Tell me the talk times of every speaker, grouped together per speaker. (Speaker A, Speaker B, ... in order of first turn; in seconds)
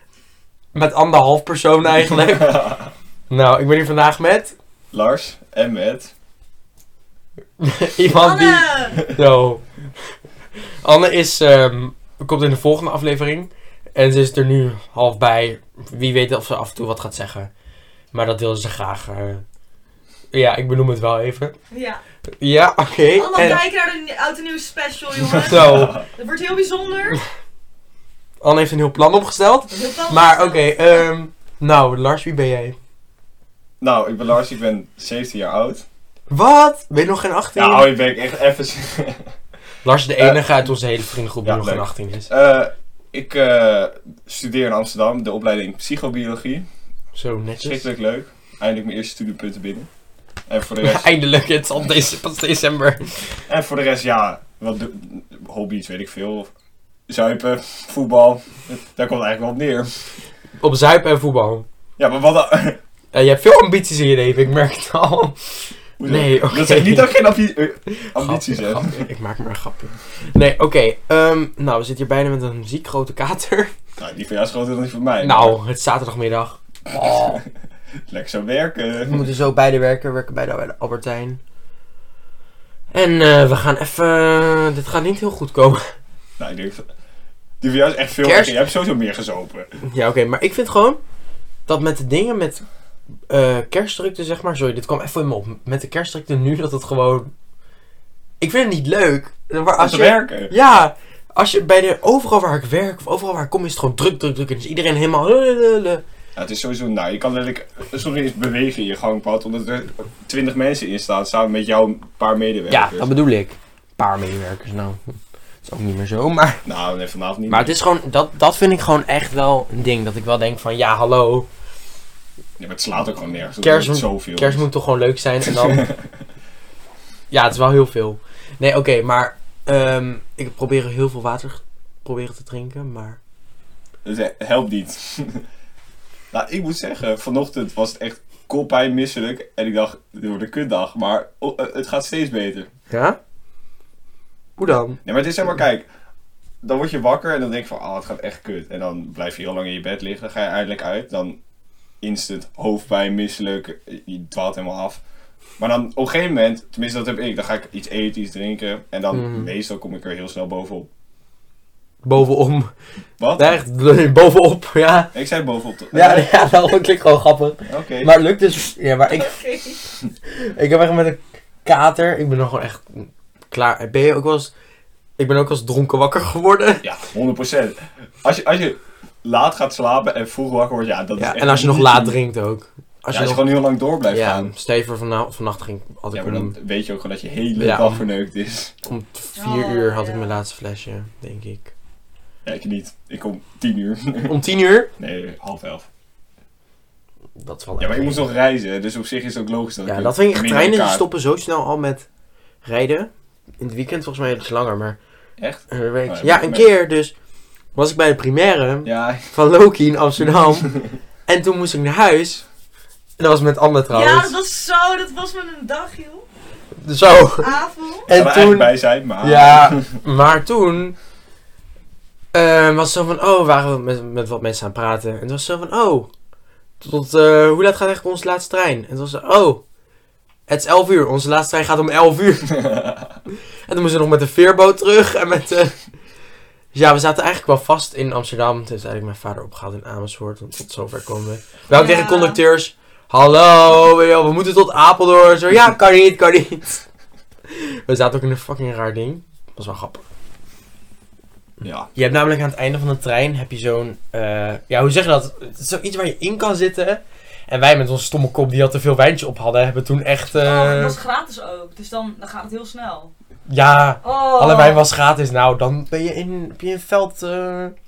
Speaker A: 0.7-2.7, 3.3-4.5, 7.6-9.7, 10.8-17.5, 18.1-19.4, 20.3-21.5, 22.4-23.6, 25.4-26.0, 28.4-32.8, 36.3-37.9, 39.8-42.3, 47.1-47.9, 50.8-53.4, 60.6-61.6, 63.1-67.1, 67.9-73.7, 75.2-77.4, 79.1-81.4, 82.9-85.9, 88.2-88.6, 89.8-91.0, 91.7-92.6, 93.3-97.3, 98.4-106.0, 112.7-116.6, 117.5-121.5, 123.6-125.8, 127.3-133.2, 142.9-143.2, 144.6-145.0, 159.1-159.5, 162.0-162.7, 163.4-165.1, 165.9-169.4, 170.3-174.5, 175.2-176.8, 181.2-183.4, 184.1-186.5, 187.5-188.1, 188.8-191.7, 194.3-194.9, 197.4-198.3, 199.8-202.1, 202.6-205.0, 205.7-207.1, 207.8-210.7, 211.3-212.4, 213.2-214.3, 216.8-217.6, 218.1-220.9, 222.3-226.1, 226.8-229.6, 230.5-232.6, 233.7-235.8, 236.7-246.8, 247.5-250.0, 251.9-261.0, 263.5-267.7
Speaker B: 2.0-2.9, 4.9-6.1, 25.2-26.1, 33.8-35.8, 37.5-39.3, 41.4-46.6, 47.6-49.9, 50.5-51.1, 53.5-56.5, 57.1-60.1, 62.0-62.8, 66.0-69.1, 74.0-75.6, 76.9-77.5, 78.1-79.2, 86.4-86.8, 87.6-89.7, 99.8-100.5, 106.3-113.1, 116.6-117.7, 122.6-124.6, 125.4-126.1, 134.0-135.4, 136.3-142.7, 145.0-145.8, 146.6-151.4, 152.0-155.0, 155.6-160.9, 163.2-163.6, 165.1-166.3, 167.7-168.1, 176.8-182.2, 183.1-184.5, 186.1-188.7, 192.4-194.3, 195.0-195.9, 197.8-201.0, 205.4-206.7, 208.8-209.3, 210.3-211.0, 218.1-219.9, 232.5-233.1, 251.6-251.9
Speaker C: 8.1-9.1, 21.7-22.0, 23.1-27.2, 29.7-30.8, 169.1-169.8, 189.3-190.4, 213.9-216.2, 217.4-218.1, 241.7-242.4, 260.4-263.1, 264.0-264.8